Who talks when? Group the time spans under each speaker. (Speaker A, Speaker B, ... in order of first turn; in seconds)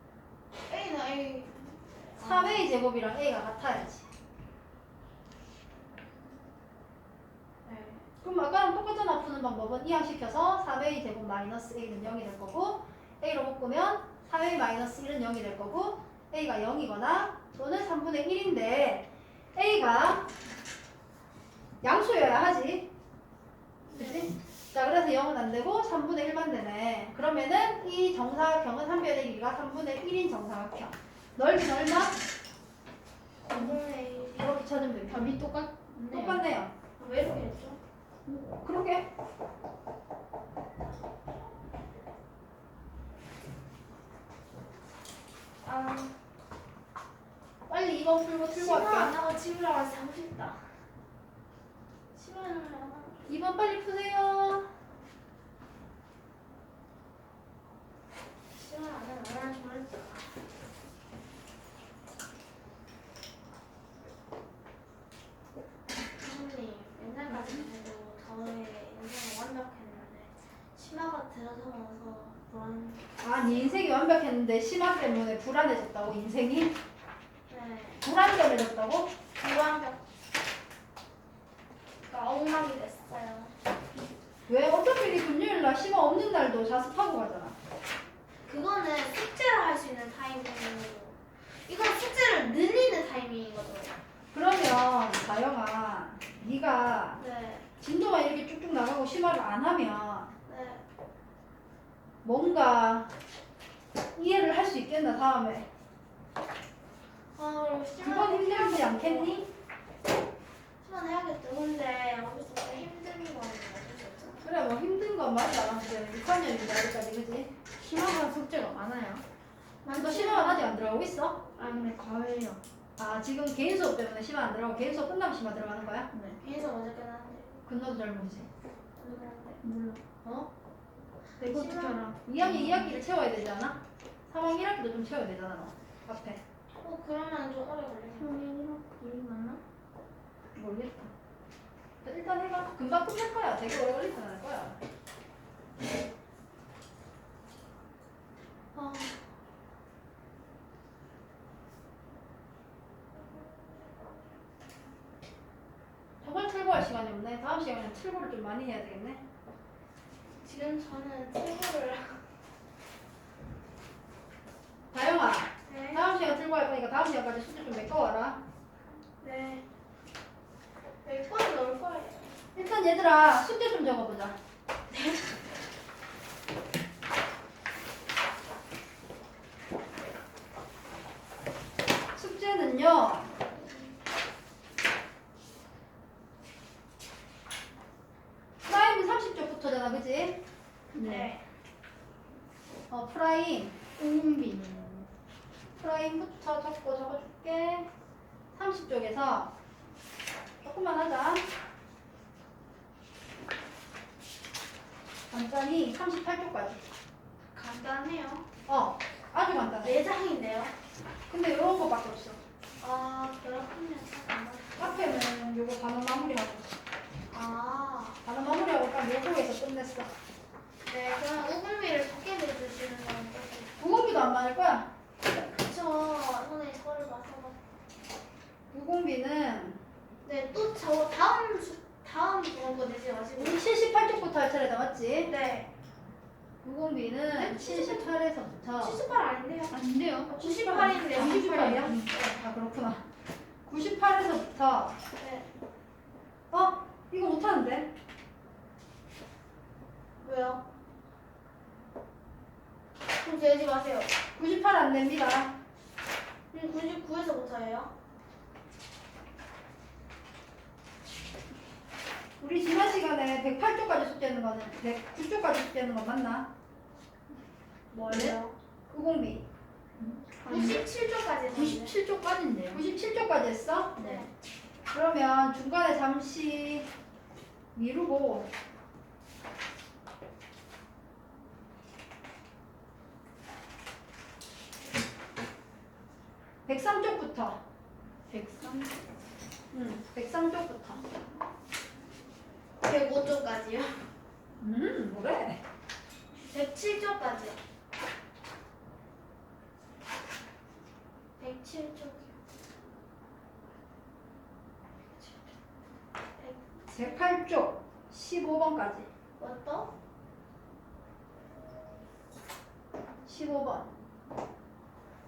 Speaker A: 0.7-2.7, 7.7-8.1, 23.9-24.3, 33.5-34.5, 36.1-36.4, 37.0-37.8, 45.6-46.1, 48.5-50.7, 52.1-53.2, 58.5-60.4, 66.2-73.0, 77.5-78.1, 79.4-80.0, 82.0-83.5, 88.5-94.0, 97.2-97.7, 100.5-100.8, 107.4-109.4, 110.8-114.5, 119.9-120.6, 126.4-127.5, 129.0-129.6, 131.4-132.2, 136.8-138.4, 148.8-149.2, 160.4-162.3, 165.7-166.1, 169.2-169.6, 171.0-172.3, 174.9-175.3, 190.9-191.4, 207.5-208.5, 209.8-210.7, 212.8-215.1, 217.3-218.2, 220.8-223.8, 225.5-227.6, 230.2-233.7, 235.2-235.7, 237.3-238.2, 238.8-242.1, 245.2-245.5, 250.2-250.6, 253.2-254.2, 256.5-257.9, 267.9-268.5, 270.4-272.0, 274.0-274.3, 292.8-294.0, 296.5-297.6, 301.4-302.3, 306.4-307.2, 309.4-309.9
Speaker B: 2.2-4.1, 8.2-20.3, 21.8-22.9, 23.9-32.2, 34.3-35.4, 36.1-36.7, 38.6-39.0, 47.7-49.1, 53.3-54.7, 73.2-76.8, 78.0-79.1, 84.5-87.6, 94.3-97.2, 97.8-100.3, 102.2-103.1, 104.2-105.7, 108.0-109.5, 114.4-117.5, 119.9-121.4, 123.0-126.1, 127.7-128.5, 132.3-136.4, 142.0-144.8, 156.2-159.2, 164.9-168.4, 172.6-174.4, 182.1-183.3, 188.6-190.4, 192.9-193.8, 195.8-197.9, 198.5-199.5, 200.6-201.5, 205.3-206.8, 208.7-210.0, 211.3-212.4, 214.8-216.7, 218.2-220.1, 223.8-224.9, 228.7-229.8, 233.4-235.3, 236.6-239.0, 240.4-243.0, 243.7-245.0, 246.5-247.9, 254.4-255.5, 262.4-266.5, 268.1-268.4, 268.9-269.4, 272.7-274.0, 274.9-276.9, 277.8-278.5, 286.7-287.6, 289.7-291.0, 294.6-295.6, 306.9-309.1, 313.2-313.9
Speaker C: 35.1-36.4, 117.8-119.2, 121.6-122.6, 126.1-126.4, 129.6-130.0, 131.4-133.0, 138.2-139.6, 140.6-141.1, 190.9-191.3, 194.0-195.1, 239.7-242.2, 270.0-270.9, 271.5-272.8, 274.0-274.3, 288.3-288.9